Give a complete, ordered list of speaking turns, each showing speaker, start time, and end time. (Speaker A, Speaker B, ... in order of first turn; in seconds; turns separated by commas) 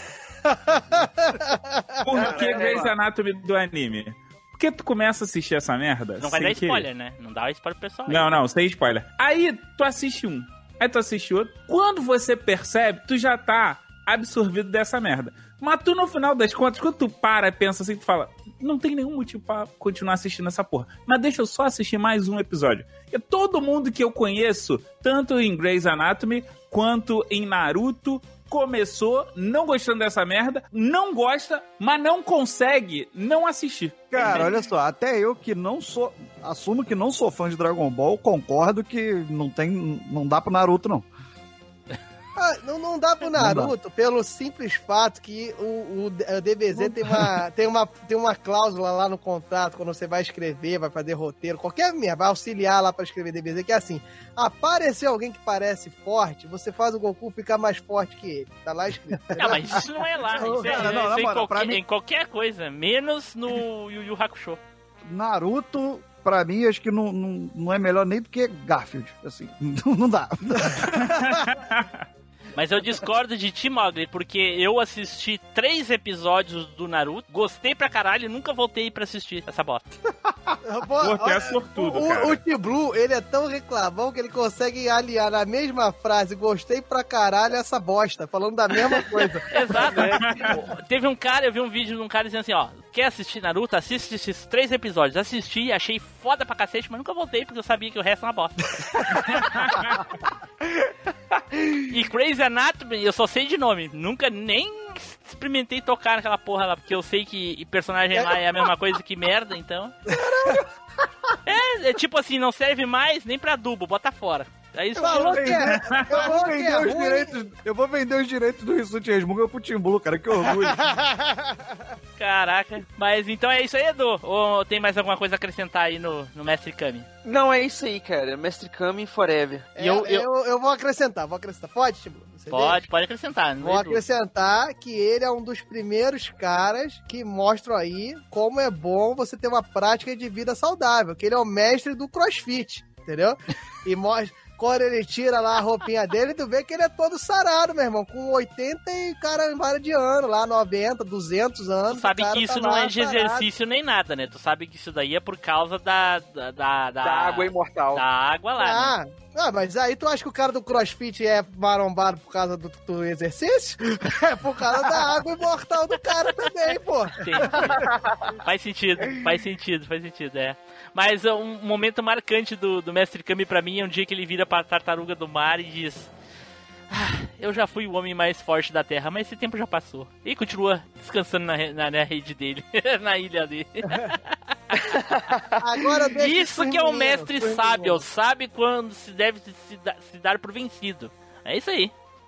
Speaker A: 0.5-2.9, Speaker B: 2.0-6.8, Speaker C: 6.2-8.4, Speaker B: 8.1-34.5, Speaker D: 34.1-41.1, Speaker A: 42.4-59.8, Speaker D: 43.3-43.7, Speaker D: 46.7-47.3, Speaker C: 59.4-64.6, Speaker D: 60.4-61.8, Speaker A: 60.4-61.0, Speaker D: 65.0-71.0, Speaker B: 70.9-72.0, Speaker C: 72.5-79.9, Speaker A: 80.6-89.4, Speaker B: 81.0-82.4, Speaker C: 89.5-98.8, Speaker E: 89.8-90.6, Speaker B: 90.2-90.5, Speaker B: 99.2-100.0, Speaker C: 101.9-109.9, Speaker A: 110.1-110.6, Speaker C: 111.5-115.5, Speaker A: 115.0-117.3, Speaker D: 115.1-120.8, Speaker A: 120.7-121.8, Speaker C: 122.2-127.1, Speaker E: 127.2-129.7, Speaker A: 129.7-132.8, Speaker C: 129.8-130.3, Speaker C: 132.5-134.0, Speaker A: 133.6-153.5, Speaker C: 151.9-158.9, Speaker E: 157.0-158.0, Speaker A: 158.6-168.3, Speaker C: 167.1-167.9, Speaker C: 168.4-176.1, Speaker C: 176.9-184.2, Speaker E: 184.9-185.4, Speaker A: 185.6-188.0, Speaker C: 186.2-191.9